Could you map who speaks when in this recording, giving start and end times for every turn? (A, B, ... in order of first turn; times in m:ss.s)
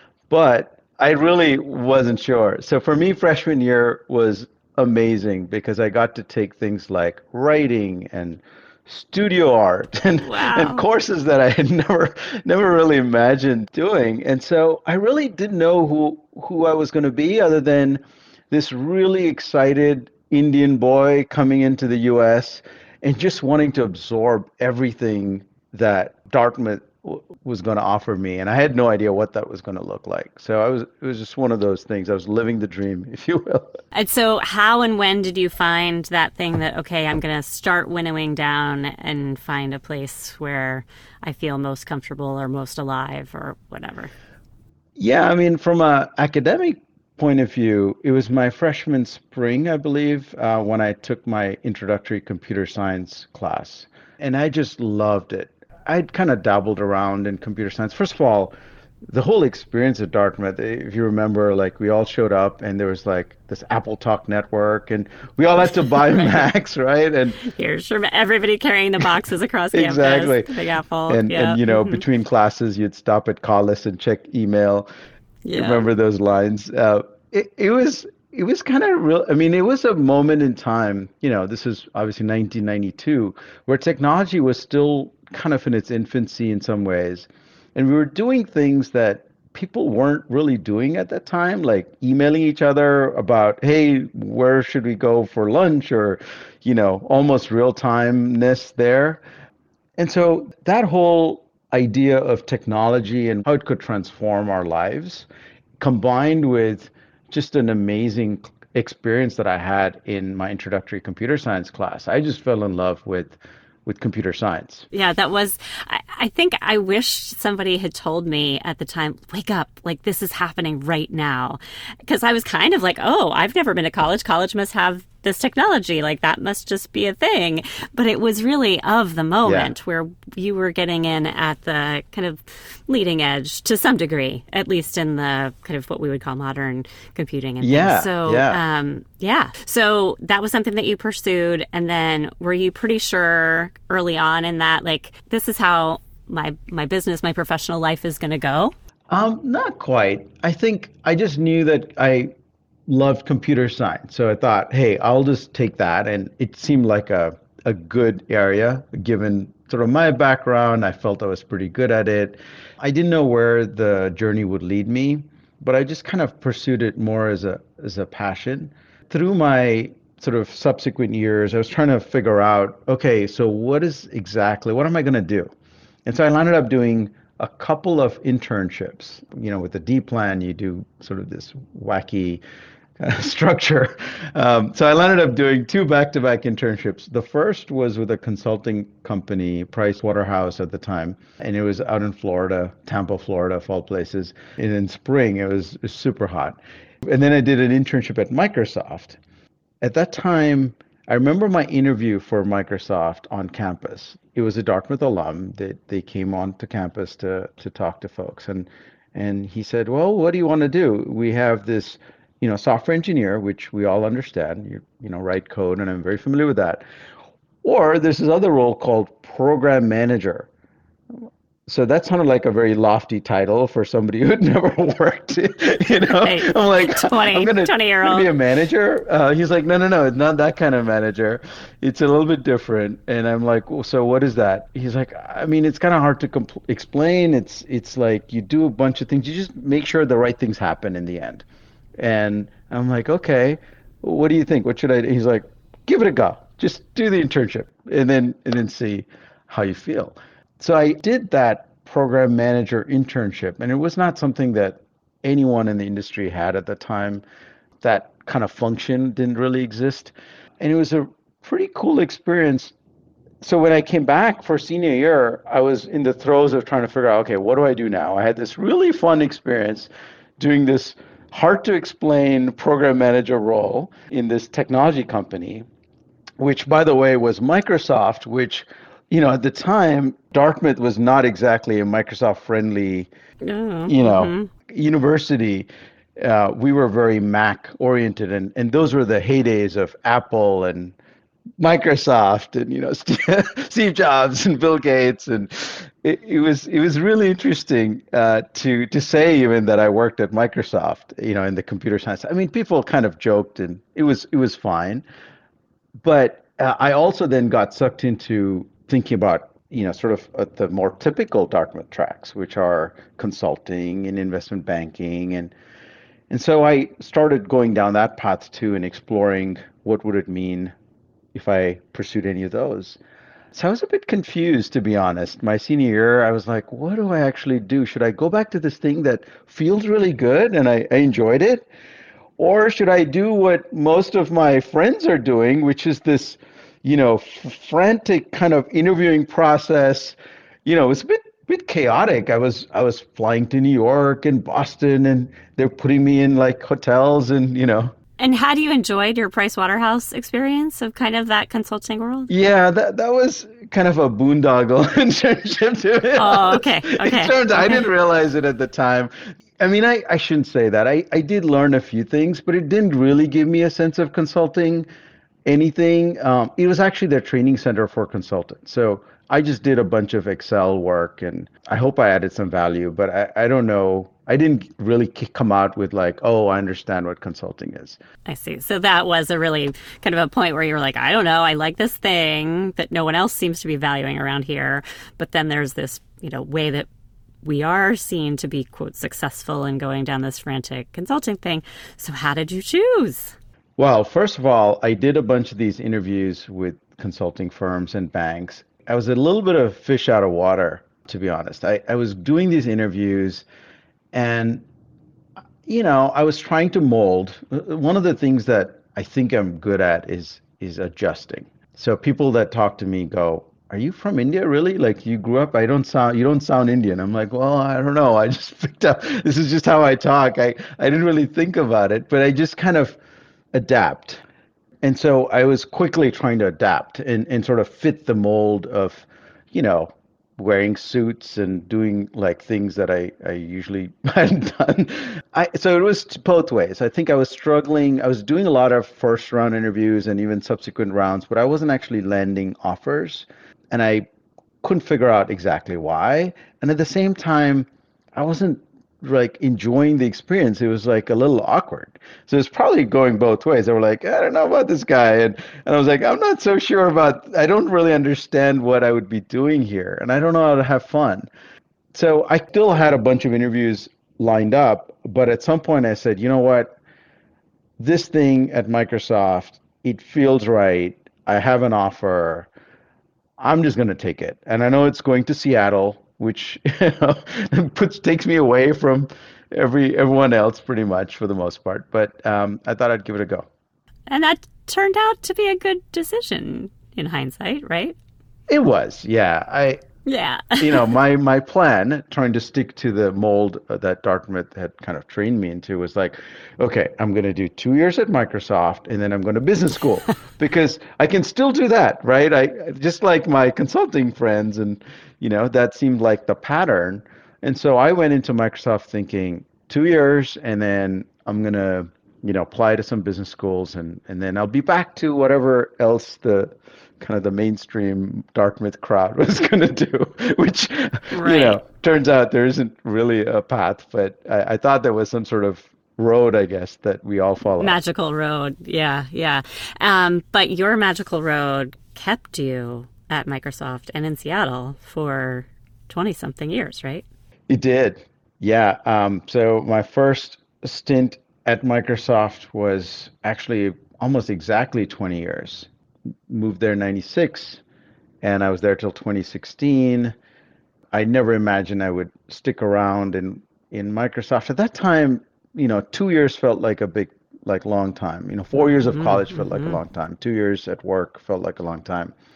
0:00.3-0:18.0 A
0:10.2-0:10.9 B
0:18.5-0:33.8 A
0:33.9-0:44.1 B
0:45.0-0:58.5 A
0:59.1-1:07.4 A
1:05.9-1:06.5 B
1:07.4-1:12.0 B
1:09.7-1:10.5 A
1:11.1-1:14.9 A
1:15.4-1:15.8 B
1:15.5-1:39.2 A
1:40.0-1:45.3 A
1:45.8-1:54.9 A
1:54.9-2:28.7 B
2:09.4-2:09.7 A
2:17.6-2:18.6 A
2:29.1-2:32.3 A
2:32.9-2:55.5 A
2:56.1-3:02.4 A
3:03.0-3:19.2 A
3:19.8-3:36.8 A
3:37.6-3:40.5 A
3:41.7-4:01.4 A
3:46.0-3:48.3 B
4:02.0-4:17.2 A
4:17.8-4:22.7 A
4:23.4-4:35.6 A
4:36.4-4:43.1 A
4:43.4-4:44.5 B
4:43.9-4:50.9 A
4:51.6-5:05.0 A
5:06.0-5:15.5 A
5:16.3-5:20.7 A
5:21.3-5:23.0 A
5:23.5-5:31.7 A
5:32.4-5:47.9 A
5:48.2-5:52.3 B
5:52.3-6:04.9 A
5:56.2-5:57.9 B
6:05.4-6:18.0 A
6:18.2-6:26.9 B
6:27.4-6:33.4 B
6:33.8-6:43.4 A
6:44.1-6:44.6 A
6:45.7-7:03.0 A
7:03.5-7:04.2 A
7:04.8-7:24.1 A
7:24.6-7:41.3 A
7:41.9-7:46.8 A
7:47.8-7:52.5 A
7:53.4-8:03.5 A
8:04.1-8:08.0 B
8:08.5-8:09.8 A
8:10.0-8:11.0 B
8:10.6-8:47.8 A
8:41.1-8:41.6 B
8:47.6-8:57.0 B
8:57.5-9:05.7 A
9:06.3-9:07.6 A
9:08.2-9:10.1 A
9:10.9-9:22.1 A
9:18.9-9:19.8 B